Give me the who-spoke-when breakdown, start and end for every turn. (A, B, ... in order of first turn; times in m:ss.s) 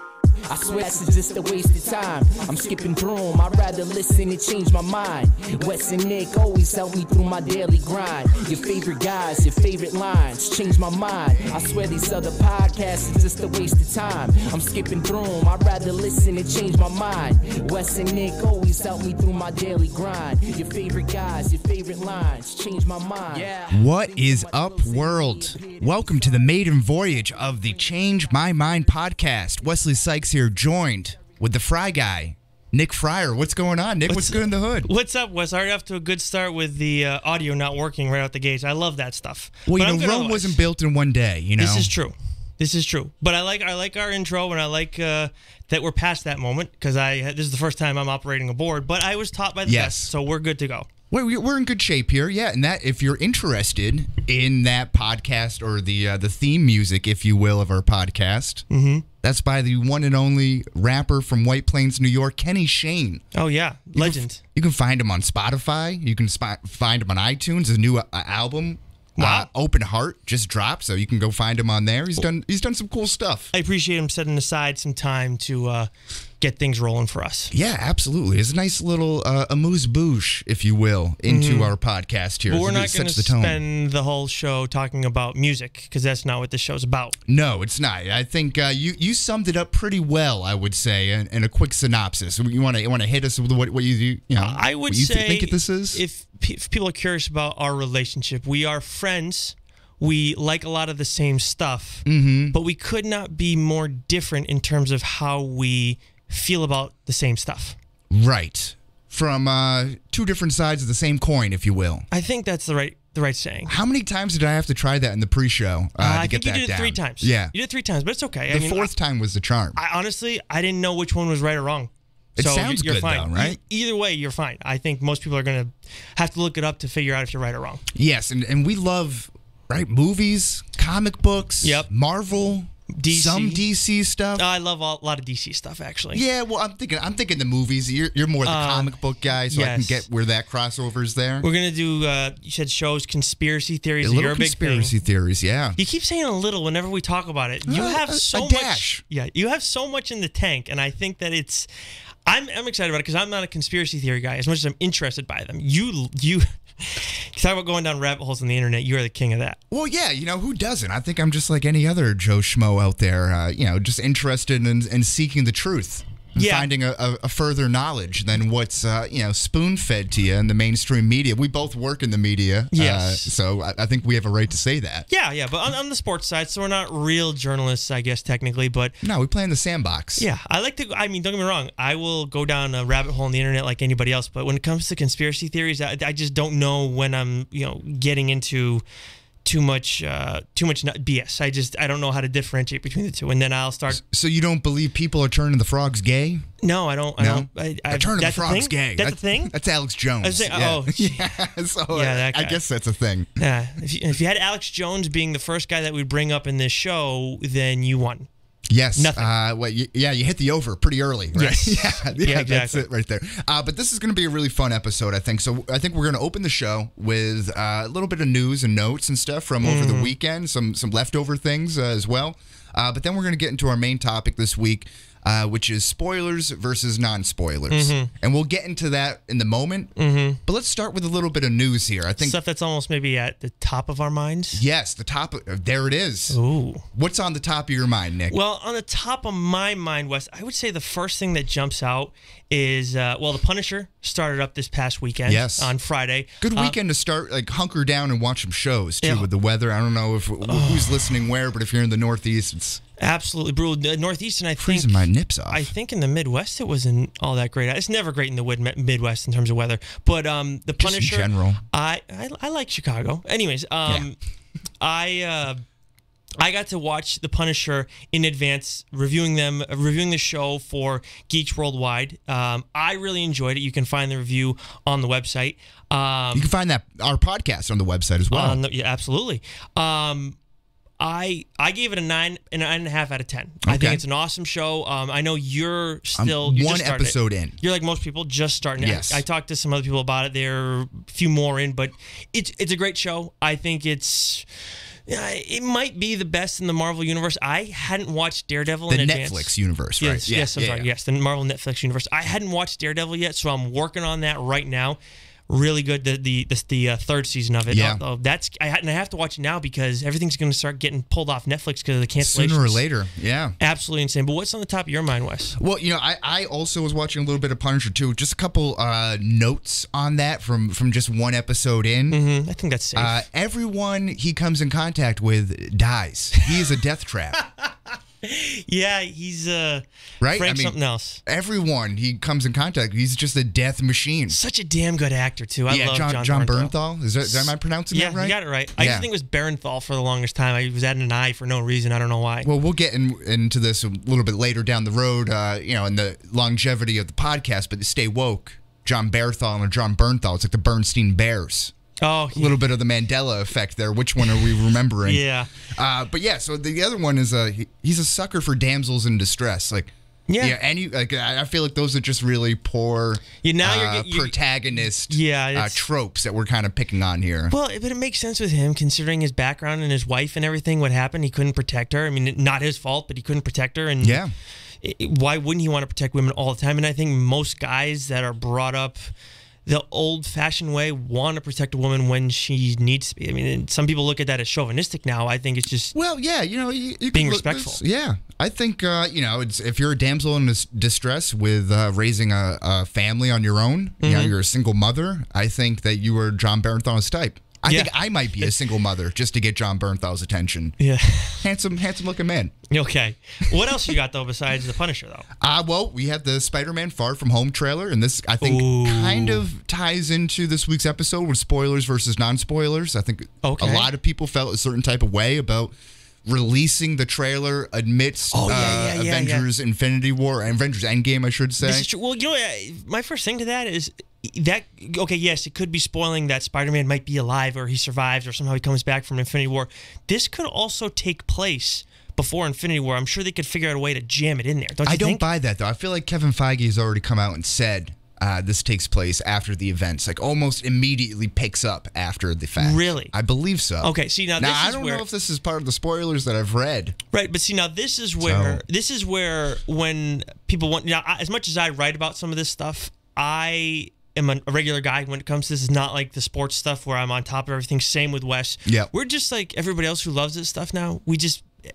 0:00.4-0:26.5 A
0:23.7-0:34.9 B
0:34.1-0:40.6 C
0:39.6-0:41.9 B
0:41.6-0:50.9 C
0:49.6-0:50.1 B
0:51.1-0:58.6 B
0:58.7-0:59.0 C
0:59.2-1:03.2 B
1:03.3-1:04.4 C
1:04.0-1:13.5 B
1:09.2-1:09.5 C
1:13.5-1:15.9 C
1:16.4-1:17.5 C
1:17.5-1:23.6 B
1:21.2-1:21.7 C
1:22.5-1:27.2 C
1:27.3-1:36.0 B
1:34.3-1:47.8 C
1:42.0-1:42.5 B
1:48.1-1:52.1 B
1:52.1-1:53.8 C
1:53.7-1:57.5 B
1:56.0-1:58.9 C
1:58.5-1:59.8 B
1:59.8-2:07.8 C
2:02.4-2:03.6 B
2:07.9-2:14.4 B
2:11.6-2:11.9 C
2:12.9-2:13.6 C
2:14.4-2:16.2 C
2:16.1-2:21.4 B
2:18.4-2:19.0 C
2:19.5-2:20.0 C
2:21.4-2:24.9 C
2:24.0-2:25.8 B
2:25.8-2:31.7 C
2:27.6-2:29.0 B
2:32.2-2:39.6 C
2:39.7-2:55.0 B
2:46.4-2:46.7 C
2:52.7-2:53.3 C
2:55.1-2:58.9 C
2:59.0-3:00.2 B
3:00.2-3:08.8 C
3:09.4-3:14.0 C
3:13.9-3:16.4 B
3:16.6-3:19.5 C
3:17.2-3:23.4 B
3:20.2-3:21.3 C
3:21.9-3:22.6 C
3:23.4-3:28.3 C
3:28.7-3:52.4 B
3:28.9-3:29.3 C
3:31.3-3:32.9 C
3:39.6-3:40.1 C
3:47.7-3:48.1 C
3:50.0-3:50.4 C
3:52.2-3:54.6 C
3:54.5-3:56.4 B
3:56.3-3:56.8 C
3:56.9-3:58.4 B
3:58.3-4:06.8 C
4:05.2-4:05.7 B
4:06.4-4:12.8 B
4:09.0-4:09.3 C
4:10.4-4:11.1 C
4:13.0-4:24.2 C
4:14.6-4:15.7 B
4:20.8-4:21.6 B
4:24.8-4:25.6 C
4:26.4-4:36.5 C
4:36.3-4:38.6 B
4:38.3-4:40.4 C
4:41.0-4:54.4 C
4:43.6-4:44.0 B
4:46.2-4:47.6 B
4:48.8-4:49.2 B
4:55.1-5:05.0 C
4:58.9-5:00.9 B
5:05.5-5:12.8 C
5:07.7-5:08.0 B
5:12.2-5:13.6 B
5:13.6-5:15.6 C
5:15.6-5:22.2 B
5:22.1-5:23.2 C
5:22.9-5:27.4 B
5:27.4-5:31.2 C
5:30.2-5:34.4 B
5:34.3-5:36.7 C
5:35.7-5:39.1 B
5:37.3-5:42.5 C
5:42.4-5:51.7 B
5:52.0-5:52.6 C
5:52.3-6:07.5 B
5:55.0-5:55.5 C
6:00.3-6:00.6 C
6:03.4-6:05.8 C
6:07.5-6:14.2 C
6:14.0-6:14.3 B
6:14.8-6:19.1 C
6:19.6-6:25.9 C
6:25.9-6:40.7 B
6:27.1-6:27.8 C
6:34.0-6:34.3 C
6:37.6-6:38.5 C
6:40.8-6:41.4 C
6:41.4-6:42.5 B
6:42.7-6:45.3 C
6:45.4-6:55.7 B
6:48.4-6:49.4 C
6:53.4-6:53.9 C
6:56.2-7:01.9 B
6:58.3-6:59.4 C
7:01.6-7:15.2 C
7:14.8-7:27.0 B
7:22.6-7:23.1 C
7:23.8-7:25.0 C
7:27.1-7:41.5 C
7:28.2-7:28.6 B